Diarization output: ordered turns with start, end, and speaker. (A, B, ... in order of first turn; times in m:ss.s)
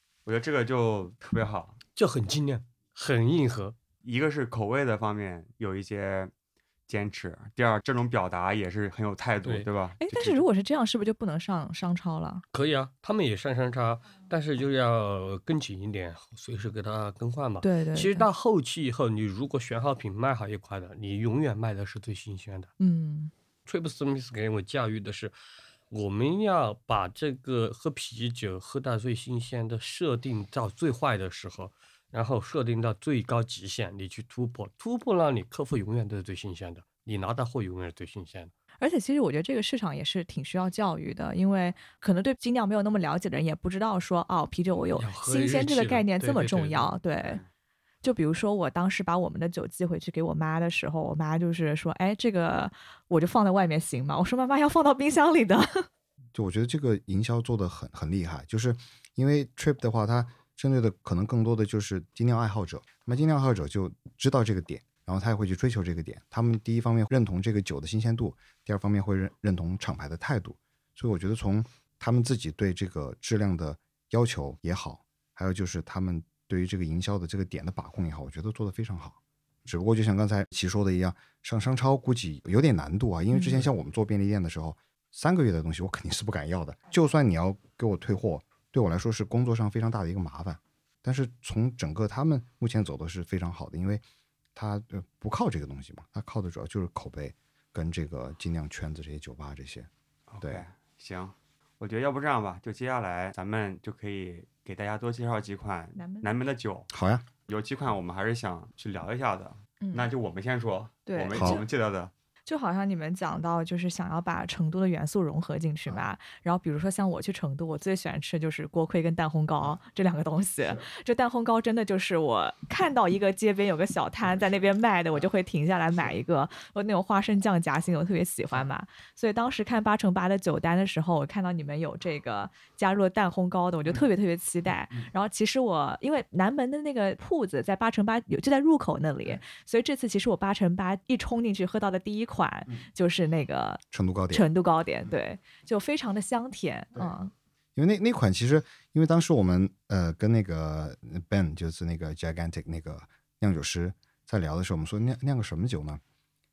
0:00.3-0:01.8 A
0:02.0-0:03.8 B
0:04.0-0:06.3 A
0:06.9-0:10.4 A
0:09.4-0:09.7 B
0:10.0-0:12.4 C
0:12.5-0:22.7 B
0:17.6-0:18.3 C
0:22.8-0:23.3 C
0:23.7-0:25.3 B
0:25.9-0:38.5 B
0:38.8-0:47.4 C
0:45.0-0:46.9 B
0:47.2-0:47.5 A
0:48.0-0:55.9 C
0:56.3-1:34.0 D
1:34.6-1:39.9 D
1:40.3-1:46.9 A
1:46.0-1:46.3 C
1:46.9-1:47.3 D
1:47.5-1:52.1 A
1:49.8-1:50.1 C
1:51.1-1:51.6 C
1:51.3-1:51.6 D
1:52.5-2:27.3 C
2:23.9-2:24.5 D
2:27.8-2:36.0 D